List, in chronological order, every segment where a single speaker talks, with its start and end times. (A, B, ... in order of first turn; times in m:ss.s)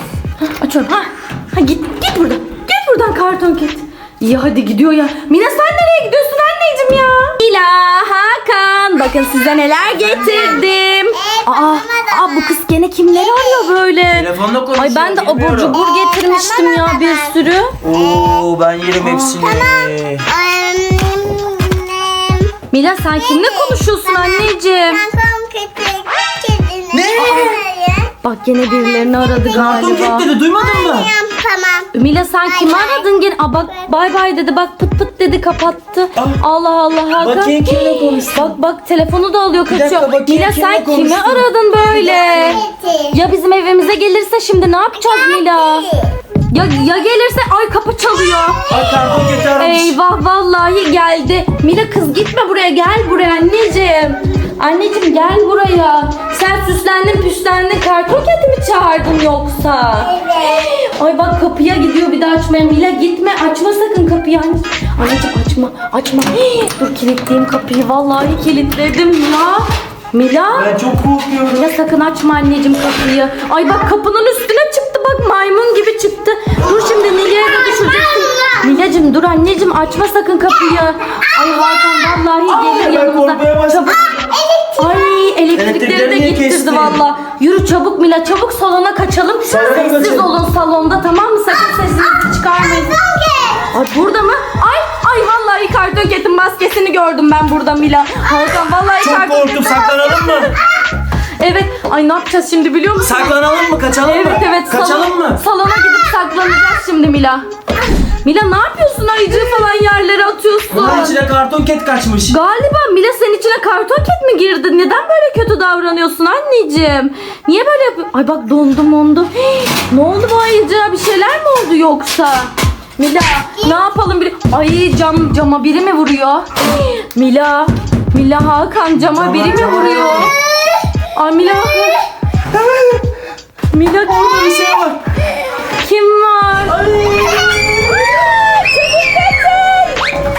0:00.4-0:17.8 A
0:10.1-0:10.6 B
0:11.2-0:12.6 B
0:13.1-0:13.7 B
0:14.1-0:15.8 C
0:15.7-0:17.4 B
0:17.8-0:20.3 C
0:18.1-0:18.4 B
0:19.0-0:19.4 A
0:19.4-0:22.5 B
0:22.7-0:25.0 A
0:23.1-0:28.1 B
0:26.9-0:27.4 C
0:27.1-0:27.6 A
0:28.2-0:30.3 A
0:28.7-0:31.9 B
0:29.6-0:31.1 C
0:31.9-0:45.9 A
0:32.4-0:33.1 B
0:37.2-0:38.6 C
0:39.7-0:42.6 C
0:42.1-0:43.2 B
0:45.0-0:46.1 B
0:46.5-0:48.7 A
0:48.7-0:49.1 B
0:48.7-0:49.9 C
0:49.6-1:10.7 A
1:00.1-1:00.7 B
1:10.5-1:11.6 C
1:11.5-1:24.1 A
1:17.7-1:18.8 B
1:22.5-1:24.0 C
1:23.9-1:25.2 B
1:24.8-1:33.0 A
1:25.6-1:27.0 C
1:29.5-1:30.3 C
1:31.7-1:33.7 B
1:33.7-1:40.5 A
1:39.0-1:40.5 C
1:41.4-1:43.3 A
1:43.0-1:45.4 C
1:44.0-1:47.4 A
1:48.2-1:51.2 A
1:50.7-1:52.4 C
1:52.3-2:10.3 A
2:09.0-2:10.3 C
2:11.1-2:12.1 A
2:12.5-2:13.1 C
2:13.7-2:14.8 A
2:14.1-2:15.0 C
2:15.6-2:16.8 A
2:16.7-2:18.3 C
2:17.8-2:20.0 A